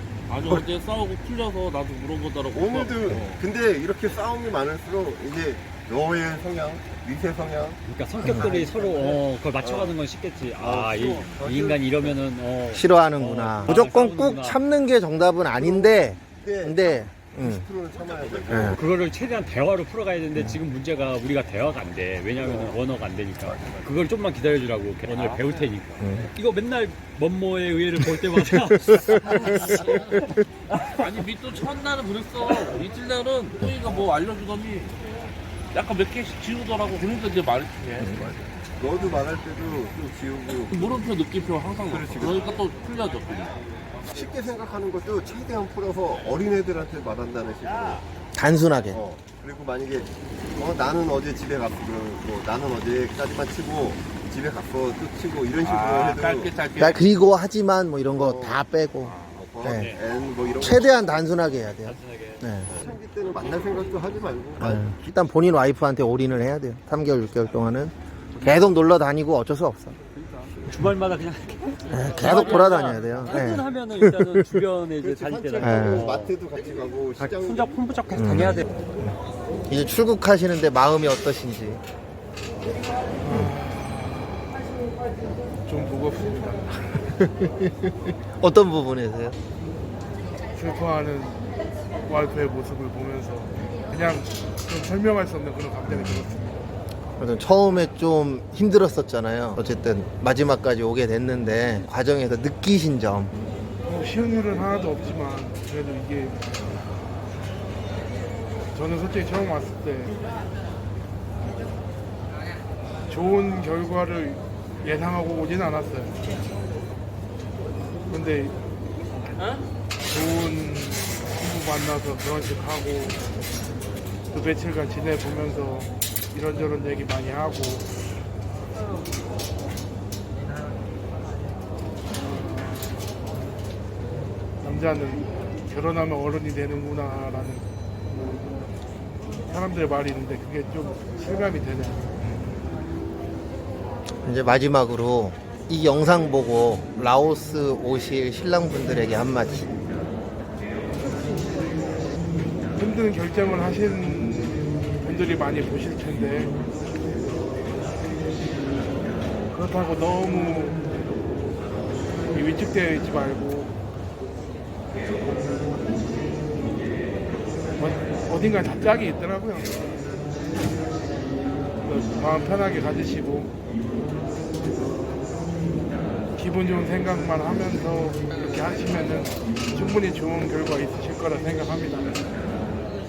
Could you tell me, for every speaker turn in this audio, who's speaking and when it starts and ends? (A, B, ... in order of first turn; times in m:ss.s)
0:00.3-0:03.4 A
0:02.5-0:07.8 B
0:07.9-0:14.6 C
0:08.2-0:08.5 D
0:08.4-0:10.0 B
0:10.6-0:12.2 B
0:12.7-0:17.6 D
0:15.6-0:18.8 B
0:18.5-0:18.8 D
0:18.6-0:30.2 C
0:22.3-0:22.8 B
0:23.4-0:23.9 B
0:25.3-0:25.7 B
0:26.0-0:26.3 D
0:30.9-0:35.0 A
0:35.7-0:38.4 A
0:38.0-0:38.3 D
0:38.8-0:40.8 B
0:40.7-0:43.6 A
0:41.8-0:42.5 B
0:44.1-0:48.0 B
0:48.4-0:49.0 D
0:48.9-0:56.5 B
0:55.6-0:57.0 A
0:56.8-0:59.9 D
0:58.2-0:58.6 B
0:59.4-1:01.2 B
0:59.6-1:00.0 C
1:00.6-1:02.7 D
1:01.6-1:02.4 C
1:02.7-1:05.0 B
1:04.6-1:10.0 D
1:10.2-1:16.3 C
1:11.9-1:14.2 D
1:15.0-1:17.8 B
1:15.6-1:16.1 D
1:17.2-1:18.8 C
1:18.1-1:18.6 D
1:19.7-1:21.8 D
1:23.2-1:24.4 E
1:25.6-1:26.7 E
1:26.9-1:29.4 D
1:30.5-1:31.4 E
1:32.0-1:36.4 E
1:35.9-1:36.5 D
1:37.2-1:43.3 D
1:43.9-1:46.4 E
1:48.7-1:50.2 E
1:53.1-1:56.2 E
1:58.1-1:58.5 E
2:00.1-2:03.2 E
2:04.3-2:07.9 E
2:12.2-2:13.0 E
2:14.6-2:17.7 E
2:19.5-2:22.1 E
2:24.2-2:29.7 D
2:32.8-2:36.5 E
2:39.5-2:40.8 E
2:42.3-2:43.7 E
2:47.8-2:49.9 E
2:51.8-2:53.5 E
2:56.4-3:02.2 E